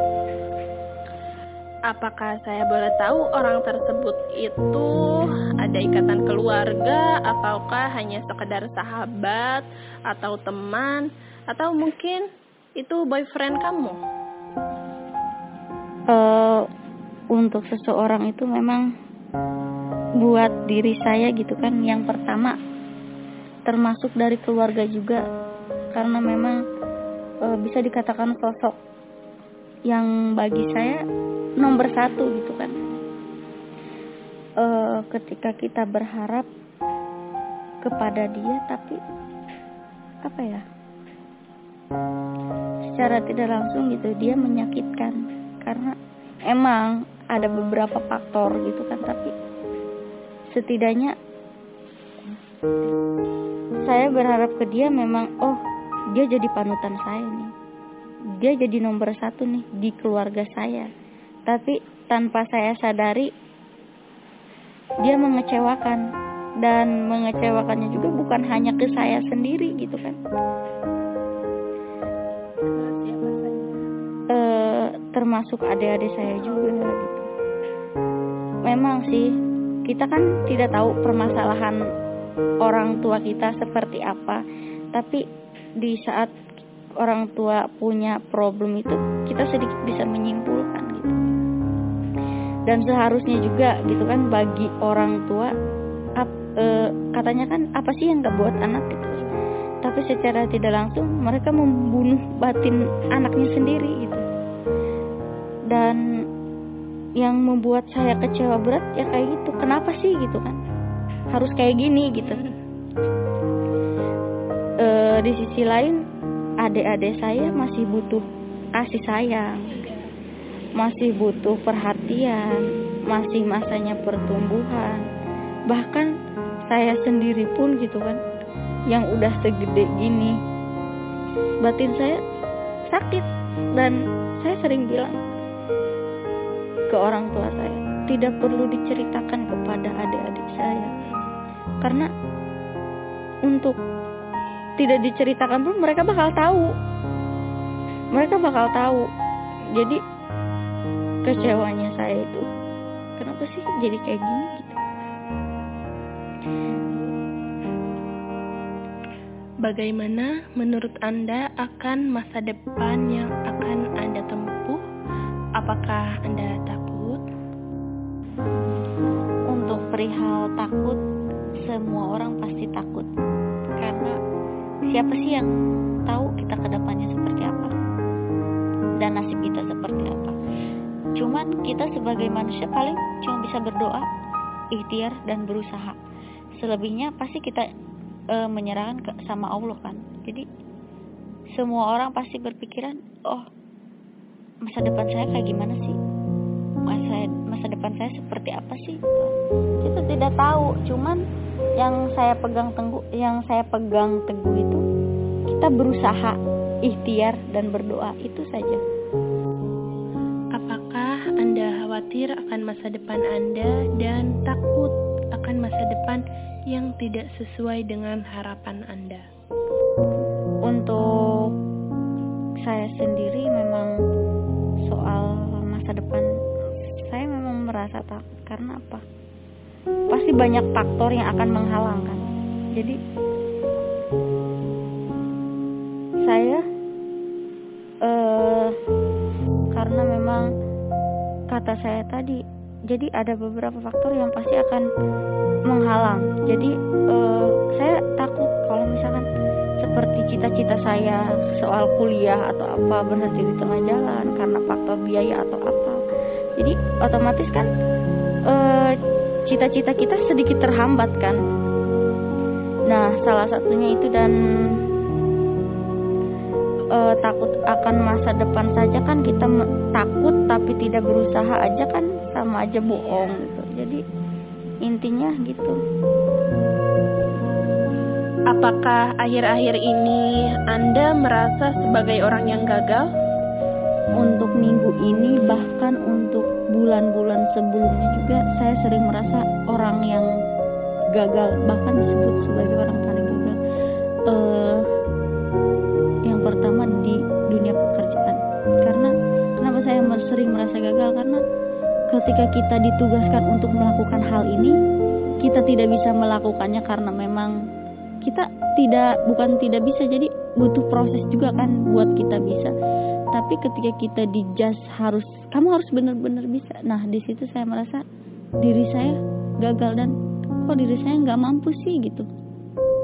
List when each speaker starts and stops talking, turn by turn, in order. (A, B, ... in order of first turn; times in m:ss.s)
0:01.9-0:12.2 A
0:12.8-0:14.0 A
0:16.1-0:16.7 B
0:17.3-0:18.9 B
0:20.2-0:22.6 B
0:23.7-0:25.2 B
0:25.9-0:26.6 B
0:27.4-0:28.8 B
0:29.9-0:31.0 B
0:31.6-0:32.8 B
0:34.6-0:36.5 B
0:37.8-0:39.0 B
0:40.2-0:40.6 B
0:42.9-0:46.0 B
0:46.5-0:49.3 B
0:50.5-0:51.2 B
0:53.8-0:55.6 B
0:56.1-0:57.5 B
0:58.4-1:00.9 B
1:01.5-1:03.3 B
1:05.0-1:06.0 B
1:06.6-1:10.2 B
1:12.7-1:13.8 A
1:14.3-1:17.3 B
1:18.6-1:19.3 B
1:19.9-1:21.8 B
1:22.6-1:25.2 B
1:25.8-1:26.3 B
1:27.0-1:31.2 B
1:32.7-1:35.5 B
1:36.2-1:39.3 B
1:39.8-1:44.2 B
1:45.7-1:46.0 B
1:47.2-1:50.6 B
1:51.3-1:52.4 B
1:54.8-1:56.0 B
1:56.6-1:59.7 B
1:59.7-2:00.1 A
2:00.8-2:05.0 B
2:05.7-2:06.1 B
2:06.7-2:08.2 B
2:08.9-2:10.4 B
2:11.6-2:12.2 B
2:12.9-2:15.2 B
2:16.9-2:20.9 B
2:21.8-2:22.1 B
2:23.5-2:23.8 B
2:24.8-2:26.7 B
2:28.1-2:29.1 B
2:29.7-2:30.0 B
2:31.2-2:32.4 B
2:33.2-2:34.8 B
2:39.6-2:44.8 A
2:45.6-2:47.2 A
2:49.5-2:51.0 B
2:51.6-2:53.1 B
2:53.8-2:54.2 B
2:54.9-2:55.5 B
2:56.1-2:57.7 B
2:59.0-3:00.4 B
3:01.2-3:04.1 B
3:04.7-3:06.0 B
3:06.6-3:07.7 B
3:08.3-3:10.4 B
3:11.6-3:13.5 B
3:14.6-3:16.0 B
3:16.9-3:21.2 B
3:21.8-3:24.8 B
3:25.5-3:28.8 B
3:30.5-3:39.2 A
3:40.6-3:41.5 B
3:42.6-3:43.9 B
3:44.8-3:46.3 B
3:46.8-3:49.0 B
3:50.1-3:52.2 B
3:56.2-3:56.6 B
3:58.0-3:58.8 B
3:59.7-4:00.5 B
4:01.5-4:04.9 B
4:05.7-4:09.3 B
4:09.8-4:16.0 B
4:16.6-4:17.7 B
4:18.5-4:18.9 B
4:19.5-4:21.4 B
4:22.9-4:24.3 B
4:27.0-4:34.0 B
4:33.0-4:33.4 A
4:34.8-4:35.8 B
4:38.5-4:43.1 A
4:44.2-4:50.3 B
4:51.1-4:53.6 B
4:54.3-4:54.9 B
4:56.3-5:01.4 B
5:02.1-5:04.8 B
5:05.4-5:07.6 B
5:08.2-5:12.7 B
5:13.3-5:18.0 B
5:18.6-5:20.1 B
5:20.6-5:22.3 B